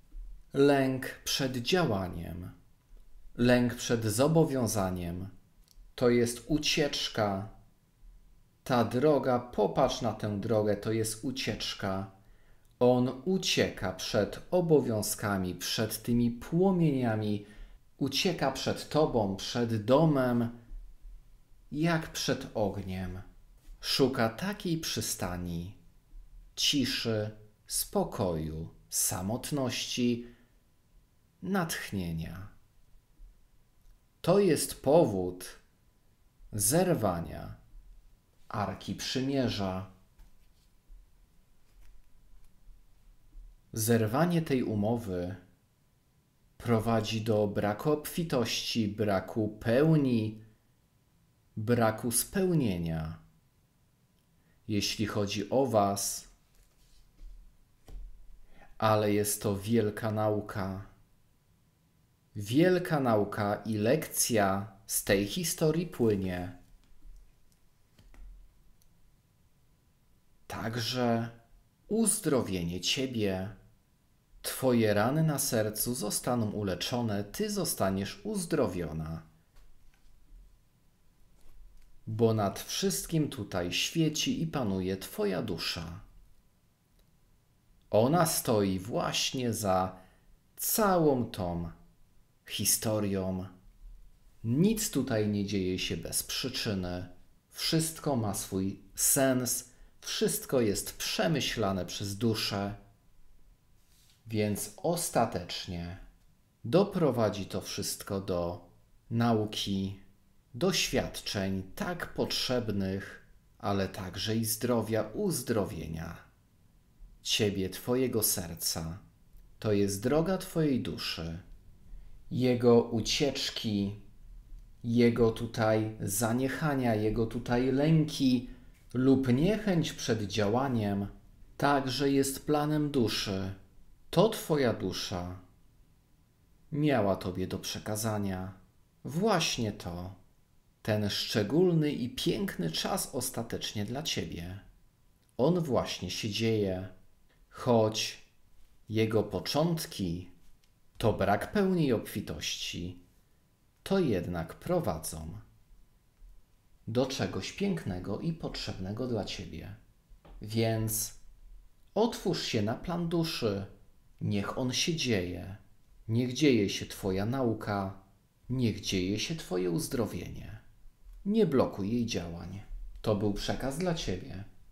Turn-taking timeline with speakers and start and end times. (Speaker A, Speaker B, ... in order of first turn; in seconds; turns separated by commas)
Speaker A: 0.5-2.5, Speaker A: 3.3-5.3, Speaker A: 5.9-7.5, Speaker A: 8.6-12.1, Speaker A: 12.8-20.5, Speaker A: 21.7-23.2, Speaker A: 23.8-25.8, Speaker A: 26.6-30.3, Speaker A: 31.4-32.5, Speaker A: 34.2-35.6, Speaker A: 36.5-37.6, Speaker A: 38.5-39.9, Speaker A: 43.7-45.4, Speaker A: 46.6-50.4, Speaker A: 51.5-53.2, Speaker A: 54.6-56.3, Speaker A: 58.8-60.9, Speaker A: 62.3-66.5, Speaker A: 70.5-71.3, Speaker A: 71.9-73.6, Speaker A: 74.4-79.2, Speaker A: 82.0-86.0, Speaker A: 87.9-90.0, Speaker A: 90.5-91.7, Speaker A: 92.4-93.5, Speaker A: 94.4-102.8, Speaker A: 104.2-106.0, Speaker A: 106.6-110.0, Speaker A: 110.5-116.2, Speaker A: 117.2-119.0, Speaker A: 119.6-121.4, Speaker A: 122.3-124.0, Speaker A: 124.8-133.6, Speaker A: 134.1-135.4, Speaker A: 136.7-140.2, Speaker A: 140.8-144.6, Speaker A: 145.4-146.9, Speaker A: 147.5-148.2, Speaker A: 148.9-150.3, Speaker A: 151.0-153.0, Speaker A: 153.8-155.4, Speaker A: 156.9-159.8, Speaker A: 160.4-161.2, Speaker A: 161.9-170.6, Speaker A: 171.2-174.5